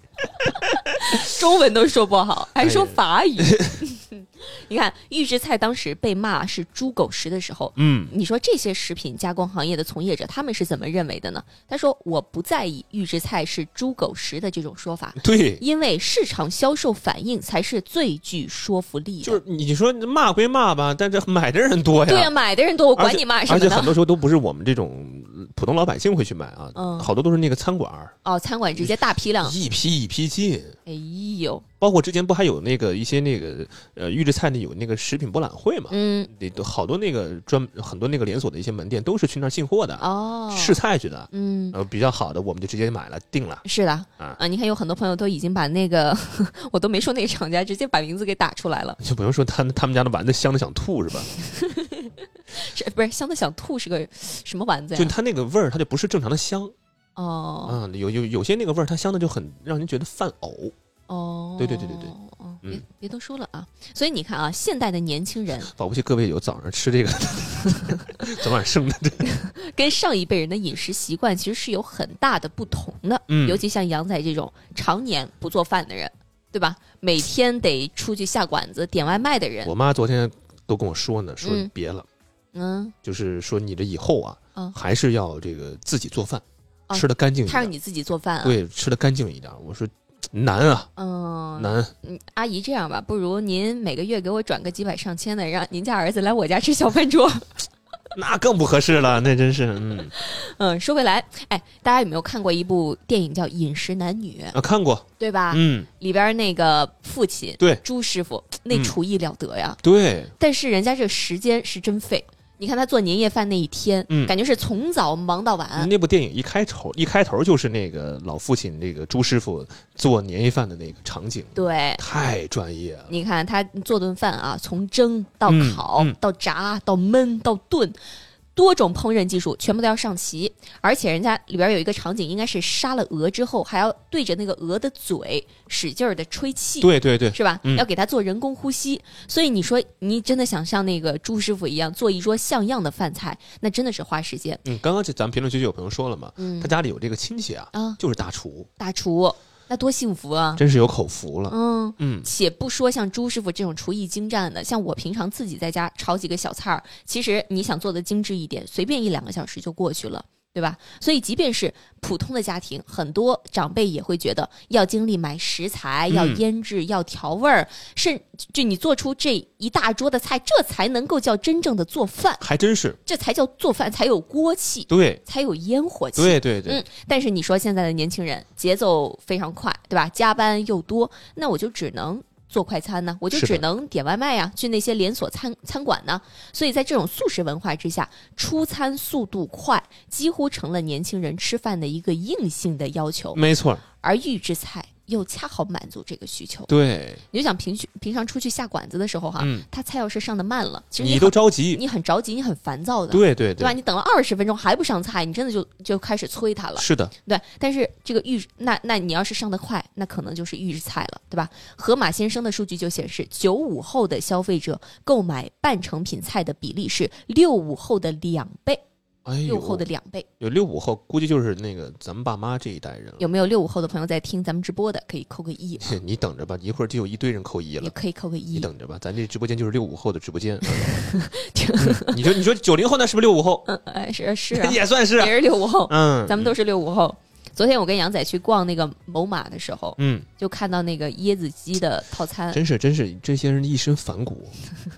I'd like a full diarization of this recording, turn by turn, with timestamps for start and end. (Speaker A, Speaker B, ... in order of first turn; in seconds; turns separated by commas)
Speaker A: 0.4-19.4, Speaker B: 2.6-3.7, Speaker B: 7.8-8.1, Speaker B: 15.2-15.6, Speaker B: 19.2-22.3, Speaker A: 22.1-24.0, Speaker B: 23.0-28.1, Speaker A: 26.8-27.1, Speaker A: 28.2-29.6, Speaker B: 28.8-30.8, Speaker A: 30.9-31.6, Speaker B: 31.8-43.6, Speaker A: 35.9-36.3, Speaker A: 40.0-40.8, Speaker A: 41.3-41.8, Speaker A: 43.6-49.0, Speaker B: 49.0-51.3, Speaker A: 51.3-55.1, Speaker B: 54.9-56.7, Speaker A: 57.2-57.8, Speaker B: 57.7-60.7, Speaker A: 61.1-65.7, Speaker B: 61.6-62.8, Speaker B: 65.7-69.3, Speaker A: 69.3-79.7, Speaker B: 73.3-73.6, Speaker B: 79.6-82.1, Speaker A: 81.4-81.7, Speaker A: 82.5-83.0, Speaker B: 83.0-87.7, Speaker A: 86.9-88.6, Speaker B: 88.4-90.9, Speaker A: 91.0-97.6, Speaker B: 91.6-91.9, Speaker B: 98.1-100.1, Speaker A: 100.1-104.6, Speaker B: 104.5-105.9, Speaker A: 105.2-109.8, Speaker B: 109.8-110.3, Speaker A: 110.4-115.9, Speaker B: 114.1-114.3, Speaker B: 115.8-123.1, Speaker A: 121.5-122.0, Speaker A: 123.1-128.0, Speaker B: 125.5-126.2, Speaker A: 128.6-144.6, Speaker B: 136.8-137.8, Speaker B: 144.6-148.7, Speaker A: 146.4-146.7, Speaker A: 147.7-148.0, Speaker A: 148.8-150.6, Speaker B: 150.6-152.3, Speaker A: 151.5-172.4, Speaker B: 166.1-166.4, Speaker B: 172.4-173.0, Speaker A: 173.1-193.4, Speaker B: 174.9-175.2, Speaker B: 176.2-176.8, Speaker B: 183.3-183.6, Speaker B: 193.3-193.8, Speaker A: 194.0-196.7, Speaker B: 196.7-197.2, Speaker A: 197.3-218.8, Speaker B: 199.4-199.7, Speaker B: 201.0-201.8, Speaker B: 203.1-203.8, Speaker B: 206.8-207.1, Speaker B: 219.3-219.8, Speaker A: 219.5-220.3, Speaker B: 220.4-223.2, Speaker A: 223.2-226.0, Speaker B: 225.8-227.9, Speaker A: 227.8-228.7, Speaker B: 228.5-231.0, Speaker A: 230.7-232.4, Speaker B: 231.8-233.7, Speaker A: 233.7-242.6, Speaker B: 234.5-236.6, Speaker B: 240.0-240.3, Speaker B: 242.5-244.6